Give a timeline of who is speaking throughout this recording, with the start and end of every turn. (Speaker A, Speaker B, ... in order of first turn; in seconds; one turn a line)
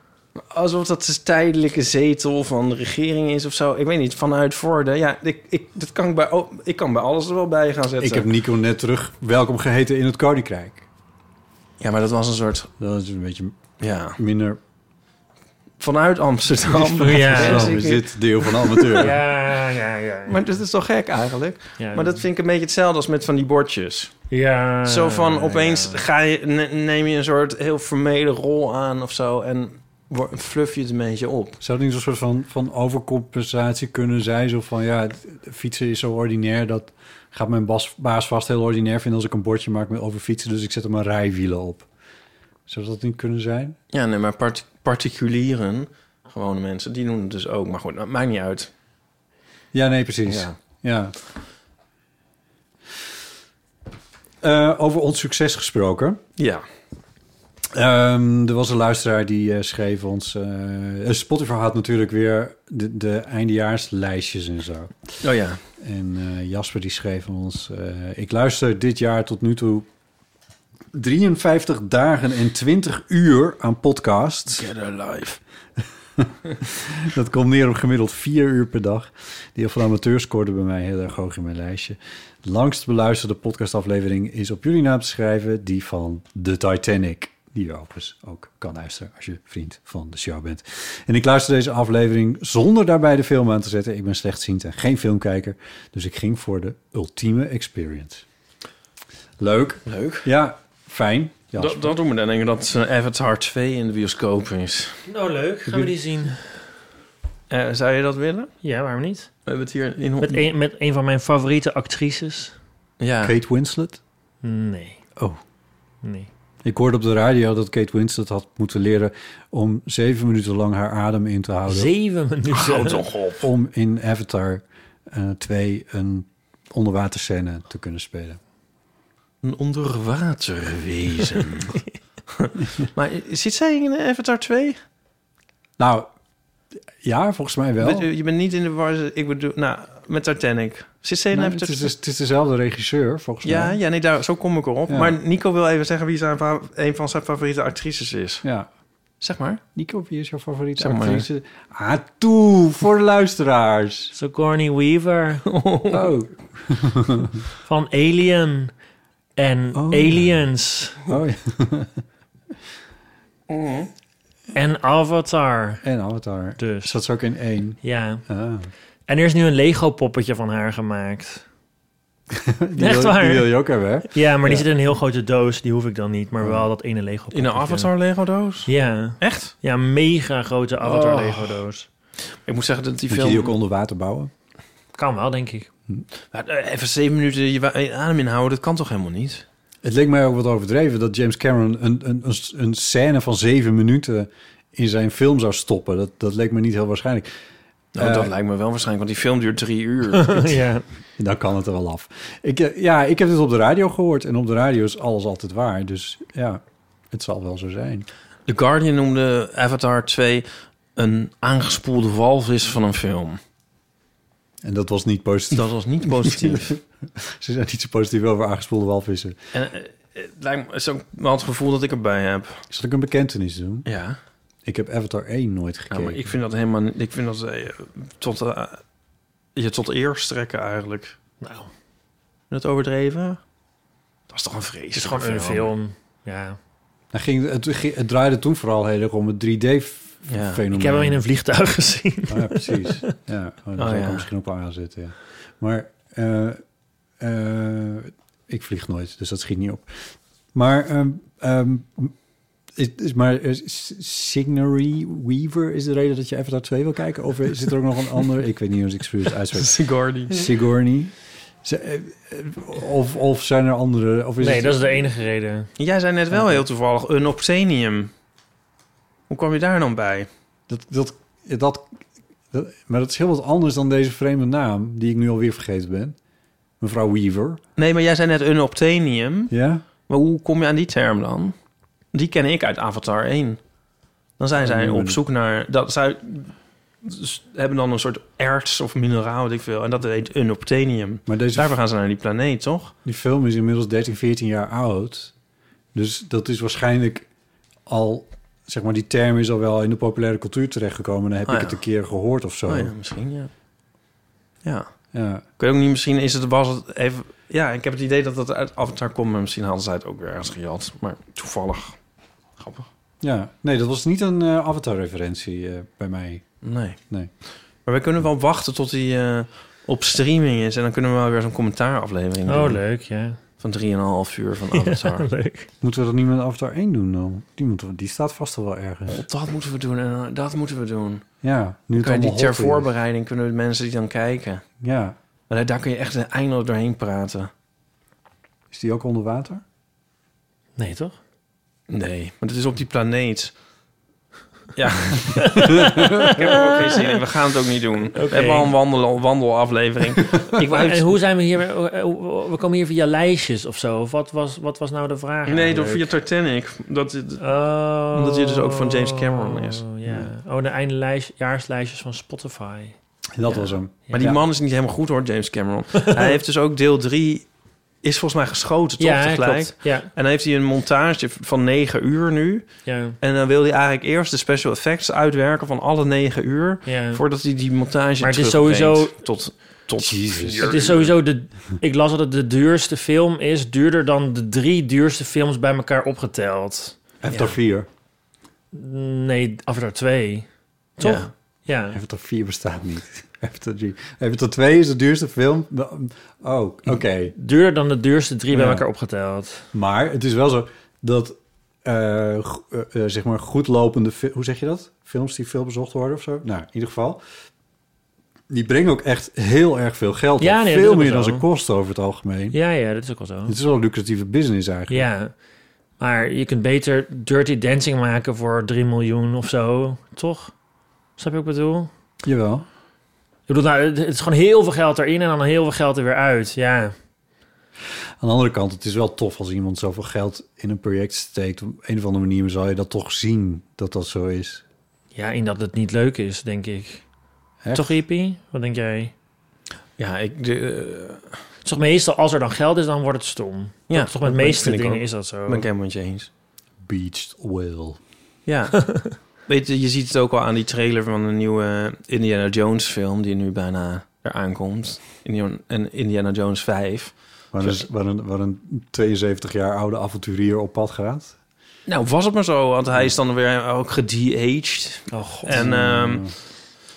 Speaker A: 0.4-8.3
Speaker B: 8.0-10.8
Speaker A: 11.8-12.7
Speaker B: 12.8-14.6
Speaker A: 13.8-14.2
Speaker A: 15.8-19.1
Speaker B: 16.7-19.2
Speaker C: 17.0-17.8
Speaker C: 19.0-20.4
Speaker A: 20.3-24.1
Speaker C: 21.8-22.2
Speaker C: 24.3-26.0
Speaker A: 24.9-31.6
Speaker B: 31.6-41.9
Speaker B: 42.7-43.8
Speaker A: 43.9-48.7
Speaker B: 49.7-51.1
Speaker A: 50.3-50.5
Speaker B: 54.4-56.2
Speaker A: 56.4-56.6
Speaker B: 57.7-65.1
Speaker A: 65.2-65.6
Speaker B: 65.8-69.9
Speaker B: 70.9-74.7
Speaker A: 74.5-75.4
Speaker B: 76.2-98.2
Speaker B: 99.4-102.0
Speaker A: 99.9-100.3
Speaker A: 101.6-105.0
Speaker C: 105.1-106.4
Speaker B: 105.7-105.9
Speaker A: 107.5-108.5
Speaker C: 108.6-109.3
Speaker A: 109.5-110.5
Speaker C: 110.2-112.5
Speaker A: 113.0-113.3
Speaker B: 113.2-114.0
Speaker C: 114.4-115.0
Speaker C: 116.0-116.3
Speaker B: 116.6-121.9
Speaker C: 121.7-123.0
Speaker A: 122.5-123.5
Speaker B: 123.4-128.4
Speaker A: 129.4-131.8
Speaker A: 132.3-134.8
Speaker B: 135.8-136.1
Speaker B: 137.0-138.1
Speaker A: 137.8-141.9
Speaker B: 141.3-143.8
Speaker A: 143.4-148.4
Speaker B: 144.9-145.2
Speaker B: 148.4-148.7
Speaker A: 149.2-149.6
Speaker B: 149.8-154.2
Speaker A: 150.8-151.3
Speaker C: 154.1-155.4
Speaker A: 155.5-156.2
Speaker B: 155.9-157.4
Speaker C: 157.6-158.7
Speaker C: 159.4-161.0
Speaker B: 159.7-160.4
Speaker B: 161.1-162.0
Speaker A: 163.5-163.9
Speaker C: 164.6-165.8
Speaker B: 165.8-168.7
Speaker C: 166.6-166.9
Speaker C: 167.8-168.2
Speaker C: 169.1-171.4
Speaker B: 172.3-174.7
Speaker C: 172.8-173.5
Speaker C: 174.0-177.9
Speaker B: 176.4-176.7
Speaker A: 177.3-179.5
Speaker C: 178.7-181.9
Speaker A: 180.8-181.6
Speaker A: 182.5-183.5
Speaker B: 183.1-184.3
Speaker C: 184.9-185.7
Speaker A: 186.3-189.4
Speaker B: 189.8-197.3
Speaker B: 198.0-198.3
Speaker A: 198.0-200.6
Speaker C: 200.2-200.8
Speaker B: 201.2-208.1
Speaker A: 208.5-213.4
Speaker B: 214.6-219.4
Speaker A: 215.5-216.8
Speaker A: 219.5-222.6
Speaker B: 222.7-223.9
Speaker A: 223.9-224.2
Speaker B: 224.7-226.2
Speaker A: 225.9-228.8
Speaker A: 229.6-231.2
Speaker C: 231.4-231.7
Speaker A: 232.5-233.4
Speaker A: 234.3-235.7
Speaker C: 234.9-236.6
Speaker B: 237.1-241.2
Speaker A: 240.3-240.6
Speaker C: 240.7-243.1
Speaker B: 242.3-246.6
Speaker A: 243.8-244.3
Speaker B: 247.2-252.2
Speaker B: 252.8-265.0
Speaker A: 259.6-260.5
Speaker C: 264.4-265.7
Speaker A: 265.8-268.1
Speaker B: 266.3-266.6
Speaker A: 269.3-270.3
Speaker B: 270.7-271.9
Speaker B: 272.5-276.2
Speaker B: 276.8-277.6
Speaker A: 277.8-279.5
Speaker B: 279.5-279.9
Speaker A: 280.1-281.6
Speaker A: 282.1-283.6
Speaker A: 284.4-292.9
Speaker B: 284.6-285.2
Speaker B: 291.3-291.8
Speaker B: 293.1-295.3
Speaker B: 295.9-297.3
Speaker B: 297.9-302.9
Speaker A: 301.5-301.8
Speaker A: 302.7-303.5
Speaker A: 304.6-304.9
Speaker B: 305.1-305.4
Speaker A: 305.6-312.0
Speaker A: 312.6-312.9
Speaker B: 313.2-316.5
Speaker A: 316.6-317.0
Speaker A: 317.9-322.8
Speaker C: 322.5-323.4
Speaker A: 323.6-325.3
Speaker C: 324.7-325.7
Speaker B: 325.8-329.3
Speaker A: 329.1-331.3
Speaker B: 331.4-332.9
Speaker A: 332.0-334.6
Speaker B: 334.8-335.2
Speaker A: 335.5-337.5
Speaker B: 338.7-339.6
Speaker C: 340.8-341.2
Speaker A: 341.9-343.5
Speaker A: 344.8-351.1
Speaker C: 345.4-347.2
Speaker B: 345.8-346.1
Speaker C: 348.1-348.7
Speaker C: 350.6-356.1
Speaker A: 355.5-357.4
Speaker C: 357.4-363.0
Speaker A: 358.1-359.9
Speaker B: 363.4-364.4
Speaker C: 363.5-364.3
Speaker A: 364.1-367.5
Speaker A: 368.0-381.1
Speaker C: 369.0-370.1
Speaker C: 372.9-373.2
Speaker C: 376.9-377.2
Speaker C: 378.2-379.1
Speaker B: 380.0-380.8
Speaker C: 380.6-387.0
Speaker B: 387.2-387.9
Speaker C: 388.7-390.5
Speaker C: 391.0-392.0
Speaker A: 391.0-391.3
Speaker B: 391.9-397.3
Speaker C: 397.4-399.7
Speaker B: 398.5-398.9
Speaker B: 399.7-407.2
Speaker B: 408.5-412.6
Speaker C: 410.4-411.4
Speaker C: 412.5-413.6
Speaker B: 413.5-415.1
Speaker C: 414.9-415.3
Speaker C: 416.0-420.5
Speaker C: 421.2-421.9
Speaker B: 422.2-422.6
Speaker C: 423.5-426.9
Speaker B: 428.2-434.6
Speaker C: 435.1-437.0
Speaker B: 437.6-438.0
Speaker C: 437.7-439.1
Speaker A: 440.0-441.3
Speaker C: 441.6-445.7
Speaker A: 443.9-446.3
Speaker B: 446.8-448.0
Speaker A: 448.5-457.9
Speaker B: 457.5-461.4
Speaker A: 461.9-466.3
Speaker C: 465.1-465.7
Speaker B: 465.5-466.4